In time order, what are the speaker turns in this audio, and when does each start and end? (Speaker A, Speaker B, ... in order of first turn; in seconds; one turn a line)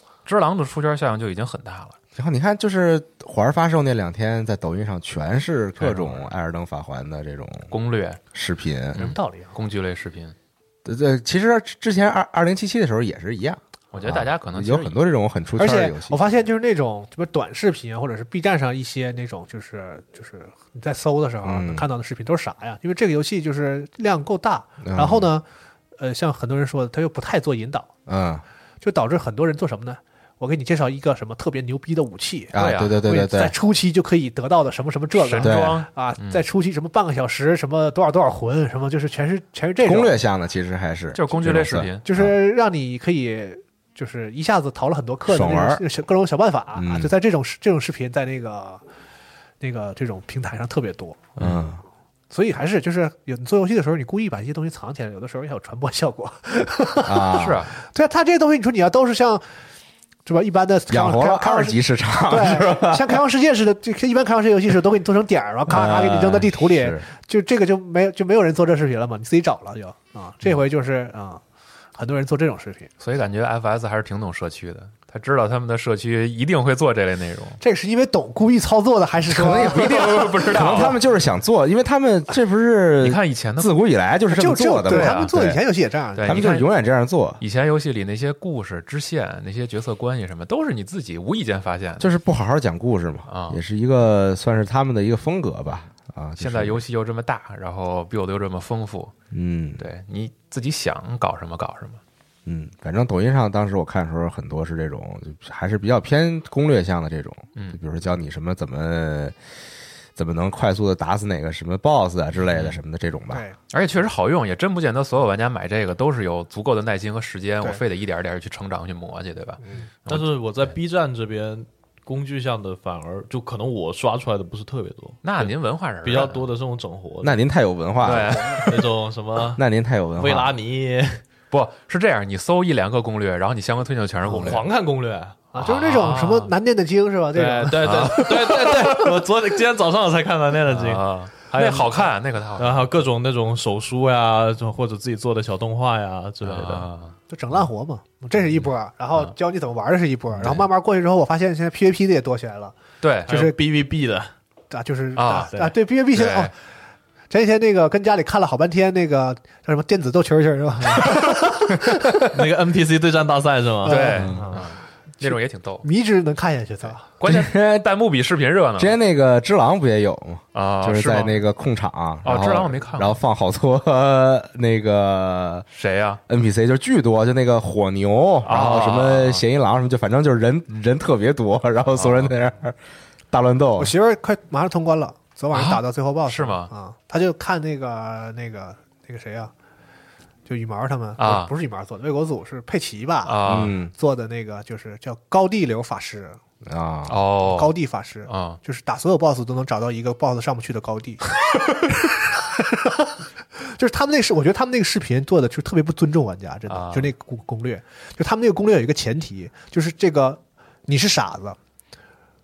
Speaker A: 0.3-2.0
Speaker B: 2.1-7.7
Speaker A: 7.7-8.2
Speaker B: 8.3-9.1
Speaker C: 9.0-9.6
Speaker A: 9.0-10.3
Speaker B: 10.8-16.2
Speaker A: 13.9-15.0
Speaker C: 15.6-25.4
Speaker B: 21.4-21.9
Speaker B: 24.8-25.3
Speaker C: 26.0-27.9
Speaker B: 28.1-28.4
Speaker C: 28.8-40.2
Speaker B: 32.5-33.5
Speaker A: 32.5-33.0
Speaker A: 35.2-36.4
Speaker B: 35.4-35.8
Speaker B: 39.8-42.4
Speaker A: 41.1-42.0
Speaker C: 42.1-48.8
Speaker B: 45.3-45.8
Speaker B: 46.8-47.1
Speaker C: 49.6-51.3
Speaker B: 51.4-51.8
Speaker C: 52.3-59.4
Speaker B: 57.0-57.6
Speaker A: 57.3-57.7
Speaker C: 60.3-71.4
Speaker B: 60.9-63.2
Speaker B: 65.7-67.1
Speaker C: 72.0-72.9
Speaker A: 73.0-77.6
Speaker C: 77.6-80.8
Speaker B: 79.3-85.6
Speaker A: 79.6-81.0
Speaker A: 83.0-83.7
Speaker C: 84.3-86.6
Speaker A: 84.9-85.3
Speaker A: 86.2-86.7
Speaker B: 86.2-87.4
Speaker A: 87.4-92.1
Speaker B: 92.0-96.8
Speaker A: 93.3-93.6
Speaker A: 95.7-99.1
Speaker B: 99.3-99.8
Speaker A: 99.8-102.0
Speaker B: 102.5-109.4
Speaker A: 107.5-107.8
Speaker B: 110.2-113.4
Speaker A: 112.5-112.8
Speaker C: 113.3-113.6
Speaker A: 113.7-120.3
Speaker D: 120.1-125.5
Speaker A: 125.2-126.4
Speaker D: 126.0-127.4
Speaker B: 127.2-128.6
Speaker A: 128.0-128.7
Speaker D: 128.6-129.6
Speaker B: 129.6-130.6
Speaker D: 130.2-131.2
Speaker A: 131.5-134.7
Speaker D: 134.2-135.4
Speaker C: 135.5-139.2
Speaker A: 135.6-136.5
Speaker D: 137.3-146.9
Speaker A: 140.7-142.9
Speaker A: 146.4-147.2
Speaker C: 147.3-152.8
Speaker A: 150.4-150.7
Speaker A: 153.0-153.3
Speaker C: 153.3-153.6
Speaker D: 153.3-154.3
Speaker C: 154.7-156.5
Speaker A: 155.2-155.6
Speaker A: 156.1-156.5
Speaker C: 157.3-162.2
Speaker D: 162.3-164.3
Speaker C: 163.8-164.6
Speaker A: 163.8-165.9
Speaker B: 164.2-164.5
Speaker C: 165.2-167.1
Speaker A: 167.2-169.0
Speaker B: 167.2-167.9
Speaker B: 168.8-175.7
Speaker A: 170.5-171.4
Speaker A: 172.2-173.2
Speaker A: 175.7-176.2
Speaker B: 176.3-182.8
Speaker A: 178.4-179.4
Speaker A: 181.9-182.3
Speaker B: 183.3-183.9
Speaker C: 183.8-189.5
Speaker A: 185.5-186.7
Speaker C: 190.5-196.4
Speaker A: 191.2-191.5
Speaker A: 193.2-193.8
Speaker B: 193.4-193.9
Speaker B: 196.6-197.2
Speaker A: 197.1-197.7
Speaker C: 197.4-211.6
Speaker A: 198.2-198.6
Speaker A: 206.7-207.1